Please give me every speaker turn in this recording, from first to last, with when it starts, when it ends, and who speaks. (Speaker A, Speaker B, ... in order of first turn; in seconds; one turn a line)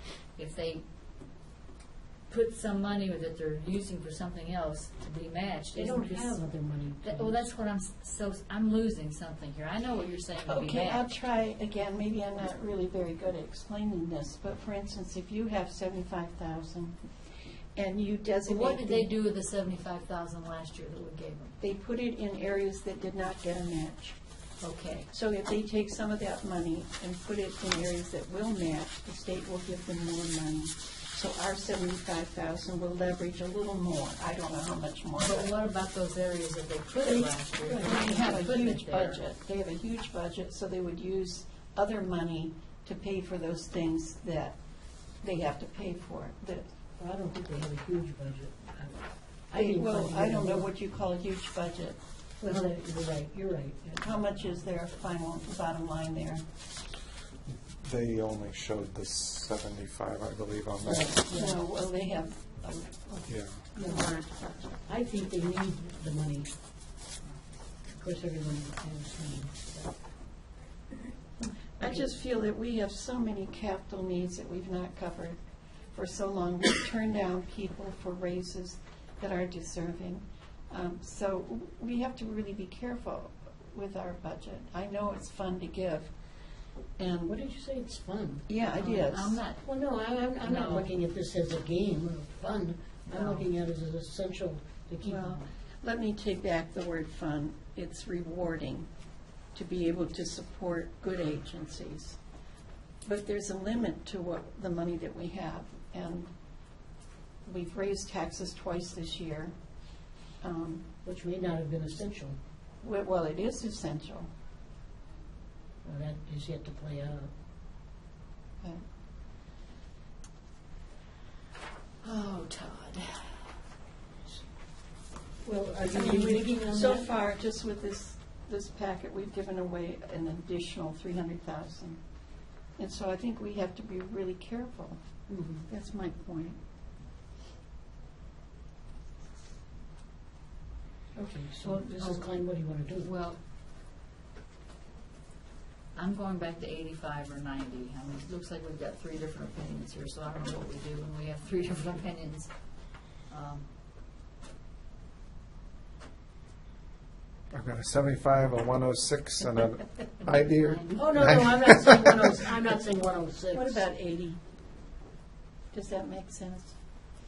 Speaker A: 0.3-0.8
Speaker A: 2.3-6.4
Speaker B: 5.7-7.5
Speaker A: 7.0-11.0
Speaker C: 10.5-17.0
Speaker C: 17.8-19.1
Speaker A: 18.4-21.6
Speaker C: 21.6-24.1
Speaker A: 24.6-25.1
Speaker C: 25.1-35.5
Speaker A: 35.2-39.2
Speaker C: 37.7-44.6
Speaker C: 45.2-46.7
Speaker B: 47.0-50.7
Speaker C: 49.5-52.0
Speaker B: 52.4-54.1
Speaker C: 54.0-56.4
Speaker D: 57.8-61.1
Speaker B: 60.8-61.6
Speaker C: 61.3-64.8
Speaker D: 63.3-63.6
Speaker B: 63.8-64.2
Speaker B: 64.8-66.5
Speaker B: 67.9-70.0
Speaker C: 71.8-75.4
Speaker C: 75.9-86.1
Speaker C: 87.0-87.3
Speaker B: 87.3-88.5
Speaker C: 88.5-89.4
Speaker A: 88.7-89.6
Speaker B: 89.6-95.4
Speaker A: 90.4-90.9
Speaker A: 93.1-93.5
Speaker C: 95.0-98.9
Speaker C: 99.5-102.2
Speaker C: 103.0-106.3
Speaker C: 107.5-109.5
Speaker C: 110.4-110.9
Speaker B: 111.0-112.4
Speaker C: 112.8-114.3
Speaker B: 115.8-117.3
Speaker A: 122.0-123.3
Speaker B: 125.4-127.1
Speaker C: 125.9-132.0
Speaker C: 132.8-135.0
Speaker B: 135.3-135.6
Speaker C: 135.7-136.6
Speaker B: 141.1-143.1
Speaker A: 141.7-142.3
Speaker A: 143.0-143.4
Speaker A: 145.9-152.5
Speaker A: 153.3-153.7
Speaker D: 157.5-162.2
Speaker A: 160.2-161.4
Speaker B: 160.9-163.8
Speaker C: 163.5-164.4
Speaker C: 165.7-166.7